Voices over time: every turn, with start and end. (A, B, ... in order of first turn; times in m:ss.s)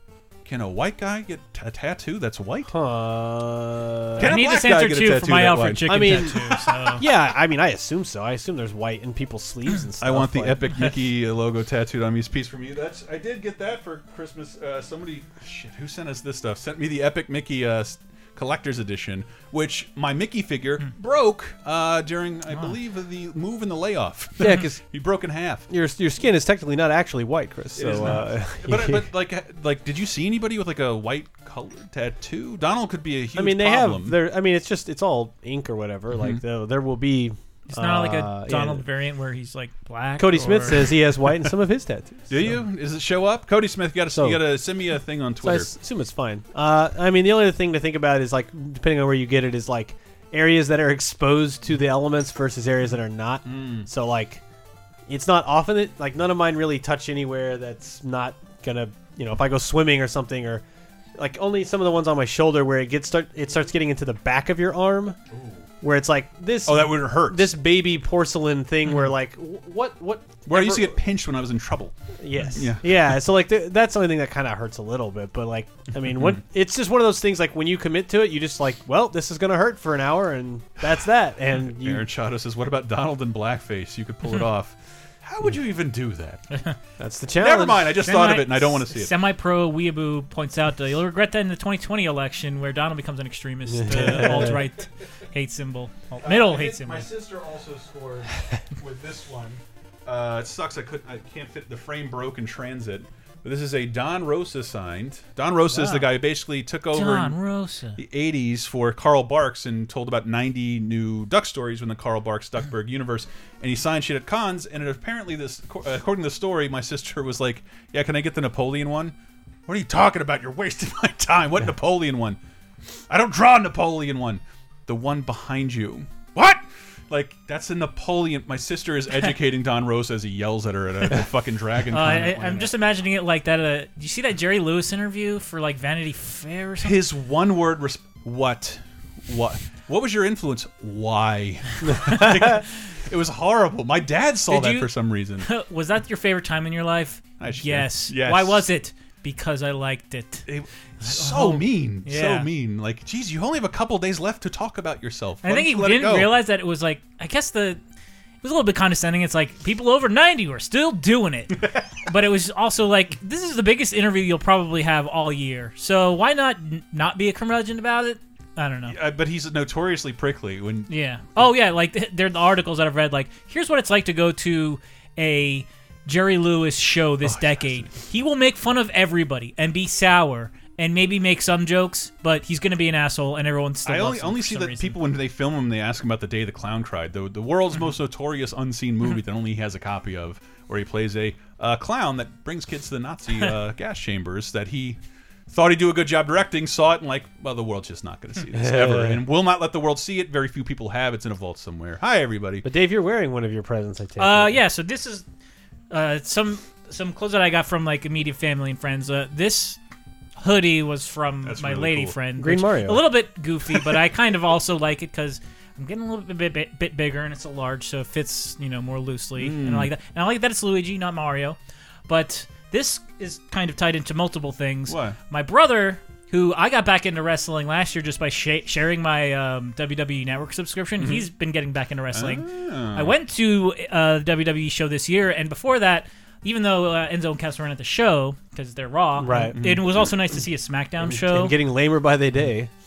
0:00.4-0:02.7 A
0:02.7-0:04.4 B
0:04.2-0:07.0 A
0:04.2-0:07.0 C
0:05.9-0:10.6 B
0:10.0-0:25.7 A
0:24.4-0:24.8 B
0:25.7-0:29.1 B
0:27.8-0:34.2 A
0:33.4-0:38.9 B
0:36.1-0:36.4 A
0:37.7-0:41.0 C
0:40.2-0:42.6 B
0:42.3-0:45.7 A
0:44.1-0:44.4 B
0:45.4-0:54.4 B
0:53.5-0:53.9 A
0:55.1-1:00.6 B
1:01.2-1:05.2 B
1:05.3-1:05.6 A
1:05.8-1:11.0 B
1:06.6-1:07.5 A
1:10.5-1:12.0 A
1:12.2-1:22.0 B
1:12.5-1:13.1 A
1:16.2-1:16.4 A
1:21.6-1:26.5 A
1:27.0-1:28.0 B
1:27.4-1:29.1 A
1:28.0-1:37.1 C
1:33.7-1:34.6 B
1:33.9-1:34.7 A
1:36.2-1:47.4 A
1:45.7-1:46.2 C
1:46.9-1:48.0 C
1:48.0-1:59.2 A
1:59.7-2:02.4 A
2:03.1-2:12.7 A
2:11.9-2:17.0 C
2:16.8-2:25.5 A
2:24.5-2:24.9 C
2:25.4-2:30.5 C
2:27.4-2:28.7 A
2:30.5-2:36.3 A
2:31.0-2:32.5 C
2:35.4-2:37.8 C
2:38.4-2:49.0 C
2:48.9-2:51.5 A
2:50.9-3:05.0 C
2:57.2-2:58.0 A
3:03.8-3:22.7 A
3:18.6-3:19.2 B
3:22.6-3:24.6 B
3:24.2-3:25.2 C
3:25.9-3:29.8 C
3:30.4-3:41.6 C
3:31.4-3:32.2 A
3:32.4-3:33.0 B
3:39.4-3:39.9 A
3:42.1-4:01.6 C
3:44.9-3:45.2 A
3:51.0-3:51.3 A
3:52.1-3:53.2 A
3:59.2-3:59.6 B
3:59.5-3:59.9 A
4:01.0-4:02.7 B